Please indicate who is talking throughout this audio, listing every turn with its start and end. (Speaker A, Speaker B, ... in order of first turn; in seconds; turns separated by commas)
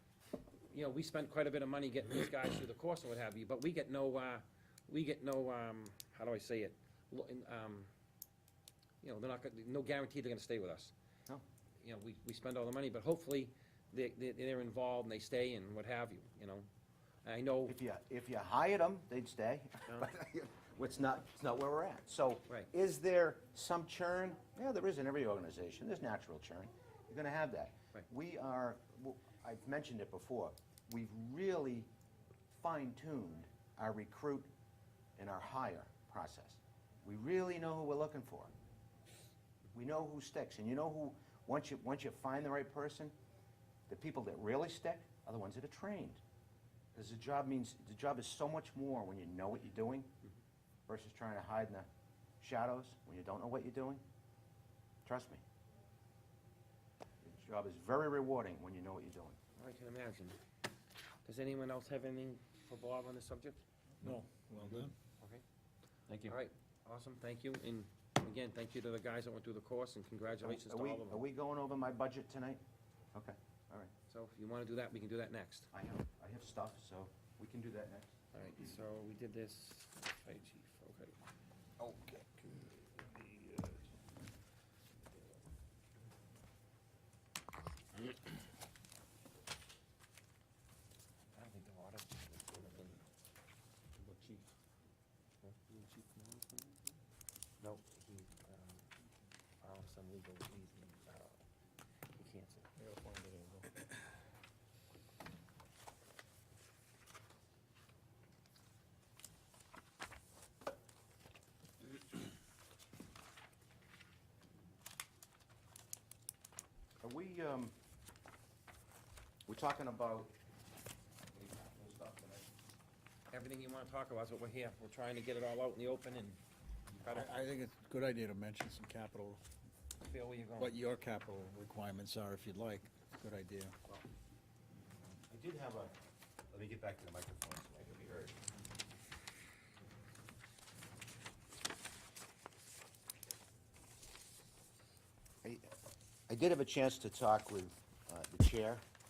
Speaker A: 0.7-7.9, Speaker A: 9.0-10.9, Speaker A: 11.8-16.7, Speaker A: 17.2-17.8, Speaker B: 17.7-31.9, Speaker B: 32.5-34.5, Speaker B: 35.1-38.5, Speaker B: 39.7-43.1, Speaker B: 43.9-46.2, Speaker B: 46.9-50.1, Speaker B: 50.9-51.9, Speaker B: 52.4-54.0, Speaker B: 55.0-55.4, Speaker B: 57.2-59.4, Speaker A: 59.6-60.4, Speaker A: 61.2-63.6, Speaker C: 64.0-64.9, Speaker A: 66.3-71.2, Speaker B: 70.4-72.6, Speaker B: 73.1-73.9, Speaker A: 74.1-75.7, Speaker B: 75.7-78.1, Speaker A: 78.3-81.2, Speaker A: 91.3-93.0, Speaker C: 94.0-94.5, Speaker A: 95.4-96.9, Speaker A: 97.6-98.9, Speaker A: 99.6-101.4, Speaker A: 102.1-102.7, Speaker C: 102.8-103.8, Speaker B: 117.0-117.7, Speaker B: 119.5-120.3, Speaker B: 121.3-122.5, Speaker A: 123.3-126.4, Speaker A: 127.0-127.4, Speaker C: 127.0-129.4, Speaker A: 130.0-130.8, Speaker C: 130.6-133.8, Speaker B: 135.3-135.9, Speaker B: 136.5-138.4, Speaker B: 145.4-145.7, Speaker B: 146.3-148.8